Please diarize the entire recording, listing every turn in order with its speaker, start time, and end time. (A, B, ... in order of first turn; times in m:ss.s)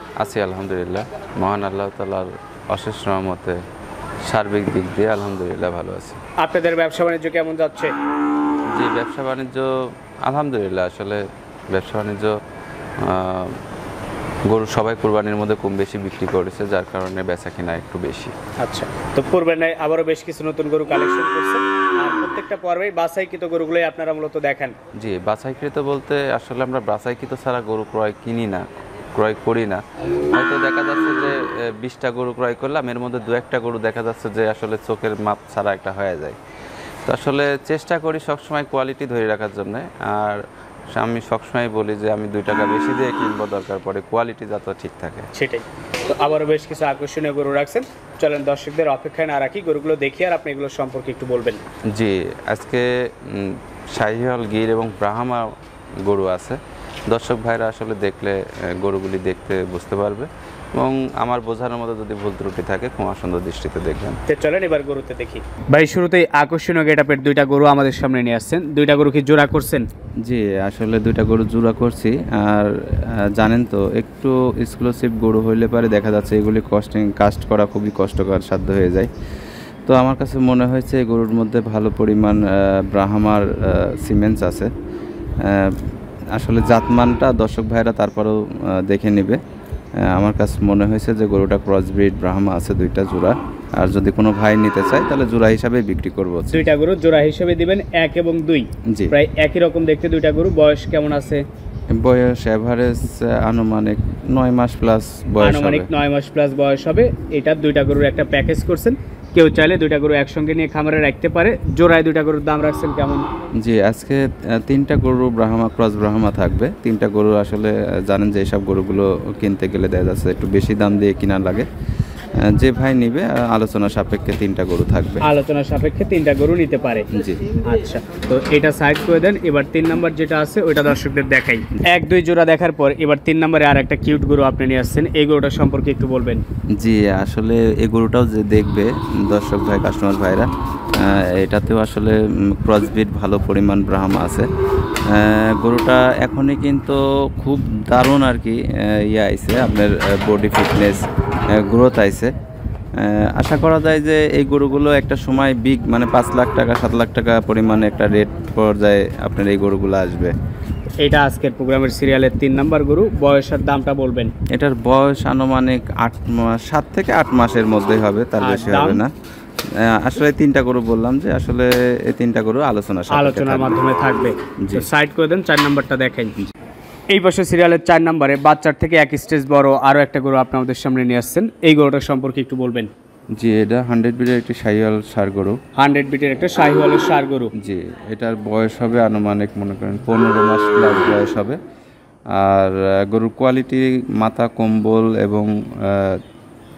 0:00.2-0:03.6 A
0:04.2-0:06.2 A
0:06.4-0:07.9 B
0:08.7-0:12.4 A
0:13.0-0:13.6 A
0:14.5-0:18.4 A
0:18.6-0:24.7 B
0:25.0-0:36.4 A
0:37.1-0:45.3 A
0:45.3-0:51.6 B
0:51.9-0:55.5 A
0:56.0-1:04.2 A
1:04.3-1:09.9 B
1:10.2-1:19.1 A
1:19.9-1:24.7 A
1:25.4-1:29.4 A
1:30.0-1:36.7 A
1:36.5-1:41.4 B
1:38.9-1:39.2 A
1:41.9-1:45.9 A
1:45.4-1:53.3 B
1:53.6-2:01.7 A
2:02.4-2:05.2 A
2:05.2-2:16.4 B
2:07.1-2:07.4 A
2:16.8-2:24.5 A
2:25.1-2:32.3 A
2:33.0-2:40.3 A
2:41.0-2:44.3 B
2:44.5-2:49.1 A
2:48.4-2:49.0 B
2:49.7-2:53.8 A
2:53.1-2:56.3 B
2:54.6-2:54.9 A
2:57.1-3:02.9 B
3:03.4-3:05.6 A
3:05.8-3:07.5 B
3:07.6-3:11.6 A
3:12.3-3:16.2 A